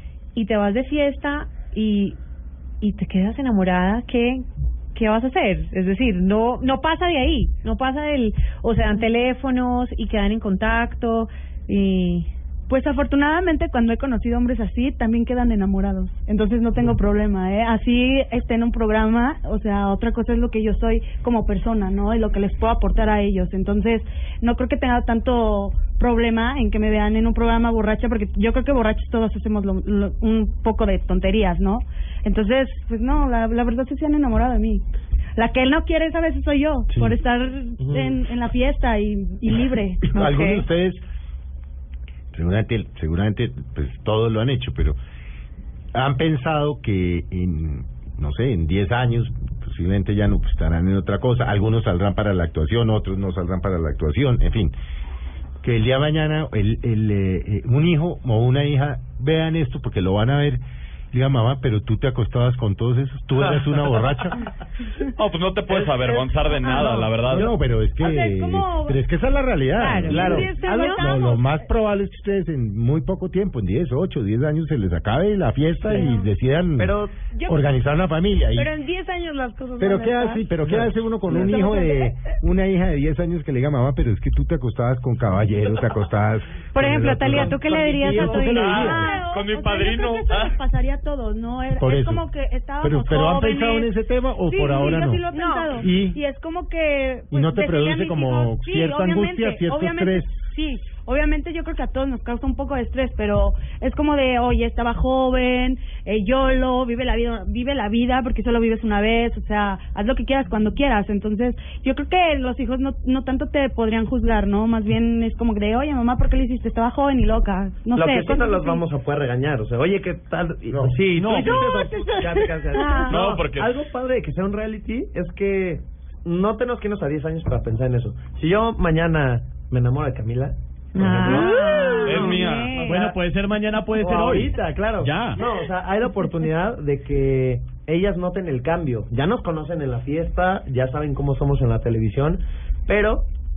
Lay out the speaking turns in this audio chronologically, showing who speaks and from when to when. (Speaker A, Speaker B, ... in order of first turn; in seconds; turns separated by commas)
Speaker A: 0.3-2.2, Speaker A: 2.8-12.3, Speaker B: 12.7-34.8, Speaker B: 35.4-40.6, Speaker C: 37.8-38.2, Speaker D: 40.0-41.0, Speaker D: 42.3-45.0, Speaker D: 45.9-54.7, Speaker D: 55.6-60.6, Speaker D: 61.1-64.4, Speaker E: 65.1-67.5, Speaker C: 65.7-67.6, Speaker D: 67.3-76.9, Speaker B: 68.0-69.0, Speaker A: 69.8-71.0, Speaker C: 70.1-70.6, Speaker B: 70.2-71.2, Speaker F: 70.3-71.4, Speaker C: 75.8-76.1, Speaker C: 76.8-77.2, Speaker F: 77.3-77.6, Speaker D: 77.5-78.7, Speaker F: 78.5-80.5, Speaker D: 79.8-89.1, Speaker C: 80.6-81.6, Speaker F: 81.3-82.1, Speaker A: 86.7-89.2, Speaker C: 87.3-88.4, Speaker B: 88.2-93.9, Speaker E: 88.5-90.6, Speaker D: 91.8-92.2, Speaker D: 92.8-95.2, Speaker B: 94.4-118.8, Speaker A: 95.3-95.8, Speaker D: 95.8-96.2, Speaker D: 97.3-100.6, Speaker C: 117.9-133.2, Speaker D: 120.7-121.0, Speaker G: 121.1-122.0, Speaker A: 122.8-123.1, Speaker E: 123.1-123.7, Speaker A: 130.9-132.9, Speaker E: 132.0-132.8, Speaker G: 132.8-135.4, Speaker C: 133.9-143.2